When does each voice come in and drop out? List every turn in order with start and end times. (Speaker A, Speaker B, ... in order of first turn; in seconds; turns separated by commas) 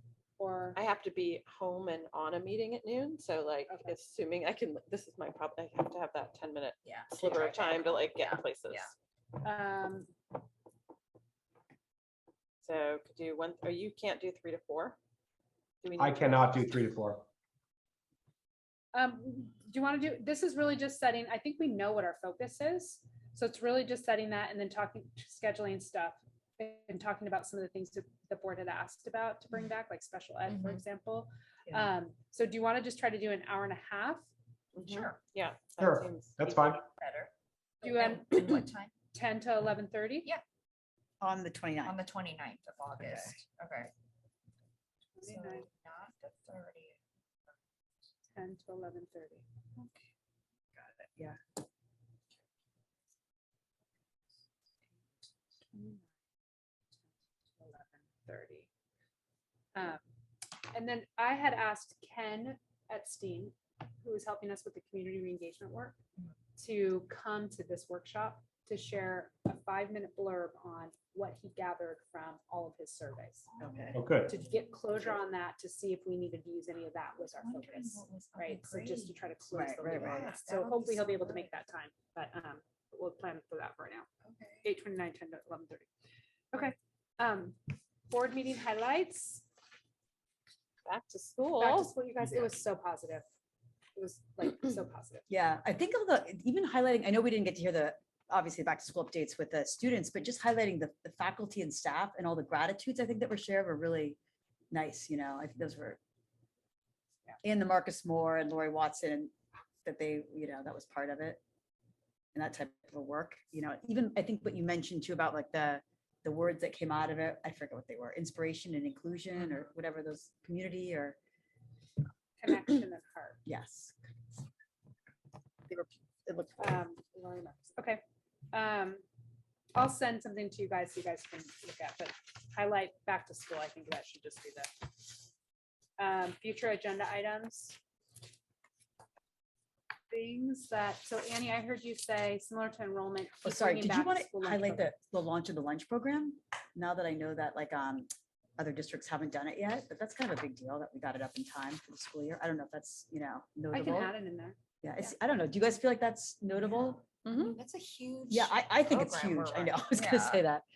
Speaker A: 0.4-0.8, Speaker B: 0.8-8.9, Speaker A: 3.7-4.0, Speaker C: 6.8-8.9, Speaker A: 9.4-10.1, Speaker B: 12.6-15.0, Speaker B: 15.8-16.7, Speaker D: 16.0-17.3, Speaker A: 18.9-34.2, Speaker C: 30.5-30.8, Speaker B: 34.8-36.5, Speaker C: 34.8-35.2, Speaker D: 35.8-36.8, Speaker C: 36.5-38.9, Speaker A: 37.8-40.3, Speaker E: 41.2-42.0, Speaker C: 41.8-43.9, Speaker E: 43.0-43.4, Speaker A: 45.1-45.7, Speaker C: 45.2-47.0, Speaker A: 48.3-49.5, Speaker E: 50.8-51.4, Speaker A: 57.6-58.7, Speaker A: 59.8-60.0, Speaker A: 60.7-66.0, Speaker A: 66.6-73.5, Speaker C: 73.5-74.9, Speaker E: 73.6-74.0, Speaker D: 73.9-74.3, Speaker A: 74.2-84.1, Speaker C: 77.2-81.5, Speaker E: 79.5-80.3, Speaker C: 84.2-84.7, Speaker A: 84.6-85.9, Speaker A: 86.5-89.5, Speaker B: 90.9-91.9, Speaker A: 91.6-93.3, Speaker A: 94.0-95.2, Speaker E: 95.3-104.2, Speaker E: 104.7-106.0, Speaker E: 107.4-109.3, Speaker E: 109.8-111.4, Speaker E: 112.3-121.2, Speaker A: 122.4-123.4, Speaker E: 123.5-124.0, Speaker E: 125.7-126.8, Speaker A: 126.6-128.0, Speaker A: 128.5-129.0, Speaker A: 129.7-135.1, Speaker A: 136.0-137.8, Speaker A: 140.1-144.9, Speaker E: 143.4-154.1, Speaker A: 153.7-154.6, Speaker E: 154.8-157.2, Speaker A: 157.2-157.6, Speaker C: 157.4-160.4, Speaker E: 158.3-160.6